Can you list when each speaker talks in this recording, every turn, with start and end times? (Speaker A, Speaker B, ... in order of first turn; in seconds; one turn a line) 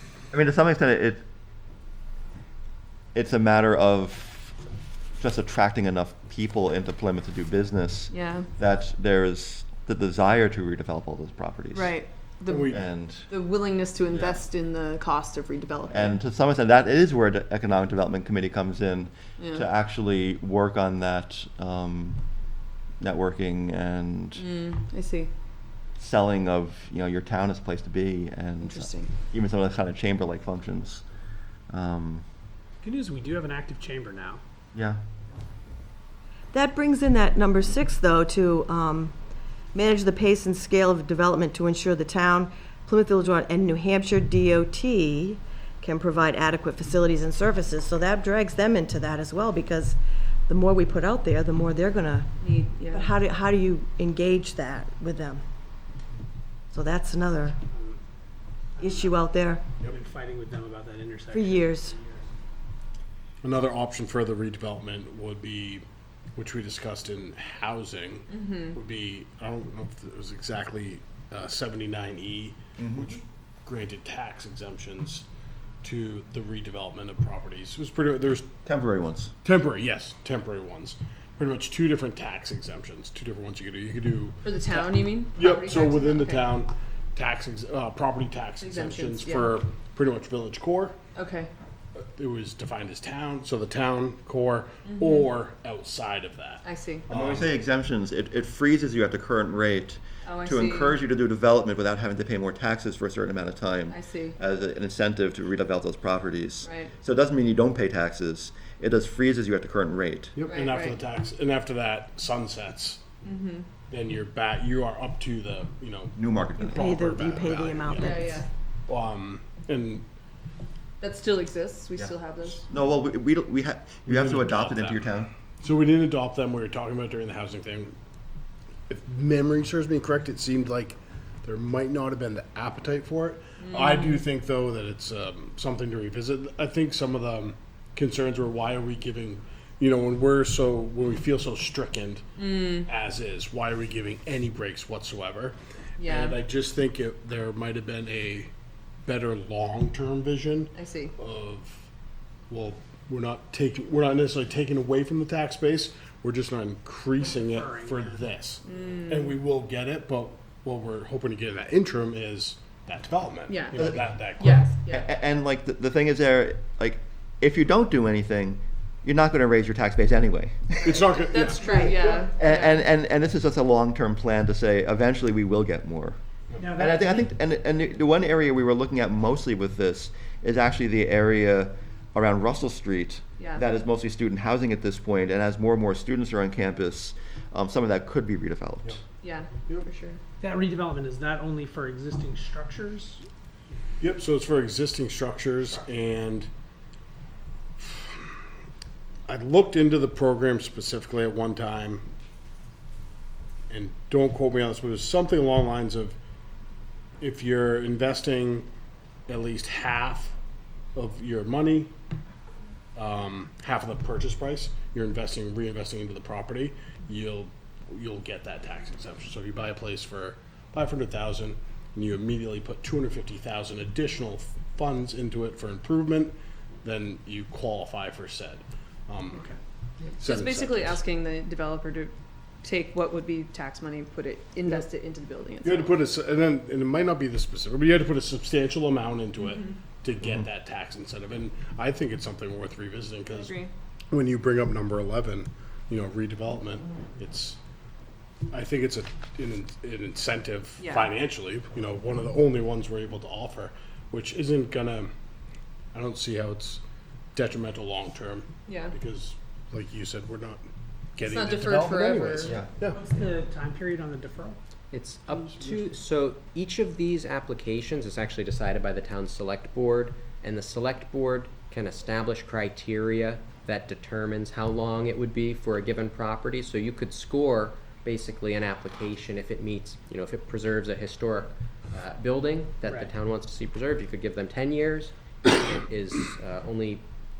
Speaker A: 0.3-1.2
Speaker A: 3.1-4.6
Speaker A: 5.2-12.0
Speaker B: 8.1-8.5
Speaker B: 11.7-16.1
Speaker C: 12.5-12.8
Speaker A: 12.7-13.3
Speaker A: 14.1-14.4
Speaker A: 15.9-22.2
Speaker B: 19.4-19.7
Speaker A: 23.0-24.5
Speaker B: 24.4-25.3
Speaker A: 26.0-31.0
Speaker B: 28.6-29.1
Speaker A: 31.7-32.2
Speaker D: 32.8-34.4
Speaker A: 34.7-35.0
Speaker E: 36.5-39.1
Speaker E: 39.7-52.3
Speaker B: 52.4-53.1
Speaker E: 52.9-55.4
Speaker E: 56.7-57.5
Speaker D: 58.8-59.1
Speaker E: 58.8-59.7
Speaker D: 59.8-62.2
Speaker E: 61.3-61.9
Speaker C: 63.4-65.8
Speaker C: 66.3-75.2
Speaker B: 68.3-68.8
Speaker A: 72.8-73.1
Speaker C: 75.8-78.5
Speaker A: 78.6-79.3
Speaker C: 79.4-91.0
Speaker B: 84.4-86.6
Speaker B: 88.6-89.6
Speaker B: 91.1-91.5
Speaker C: 92.0-97.5
Speaker B: 94.8-95.3
Speaker B: 96.6-97.1
Speaker A: 97.1-110.3
Speaker B: 100.2-101.0
Speaker B: 103.9-104.4
Speaker B: 106.6-106.9
Speaker C: 110.3-113.0
Speaker B: 110.4-111.0
Speaker B: 113.2-113.7
Speaker C: 113.9-118.3
Speaker A: 116.2-117.0
Speaker E: 116.6-118.4
Speaker B: 118.0-118.5
Speaker C: 118.9-120.0
Speaker B: 121.0-122.7
Speaker A: 122.7-125.3
Speaker C: 124.0-127.9
Speaker C: 128.9-148.5
Speaker B: 133.6-134.2
Speaker B: 142.4-142.9
Speaker B: 146.0-146.4
Speaker C: 149.0-151.8
Speaker B: 150.7-151.1
Speaker C: 152.5-164.8
Speaker D: 157.2-158.2
Speaker B: 158.7-159.3
Speaker B: 163.5-163.8
Speaker A: 163.8-164.2
Speaker B: 164.4-165.1
Speaker A: 164.9-170.9
Speaker C: 170.8-172.3
Speaker B: 171.3-172.8
Speaker A: 172.3-176.2
Speaker D: 176.6-177.3
Speaker A: 176.7-189.0
Speaker B: 183.4-183.6
Speaker B: 189.2-190.2
Speaker D: 190.4-193.2
Speaker C: 194.0-196.5
Speaker C: 197.8-198.1
Speaker C: 199.3-202.0
Speaker C: 203.7-206.2
Speaker C: 207.2-208.7
Speaker C: 209.3-210.3
Speaker C: 210.9-211.9
Speaker C: 212.9-229.4
Speaker C: 230.2-231.0
Speaker B: 230.2-236.0
Speaker C: 235.6-243.6
Speaker B: 239.4-239.7
Speaker B: 243.3-243.7
Speaker C: 244.1-247.6
Speaker C: 248.5-255.1
Speaker B: 250.8-251.1
Speaker C: 255.9-256.8
Speaker C: 257.3-263.0
Speaker B: 258.6-258.9
Speaker B: 261.2-262.6
Speaker D: 262.9-264.6
Speaker F: 264.9-287.0
Speaker C: 265.3-265.9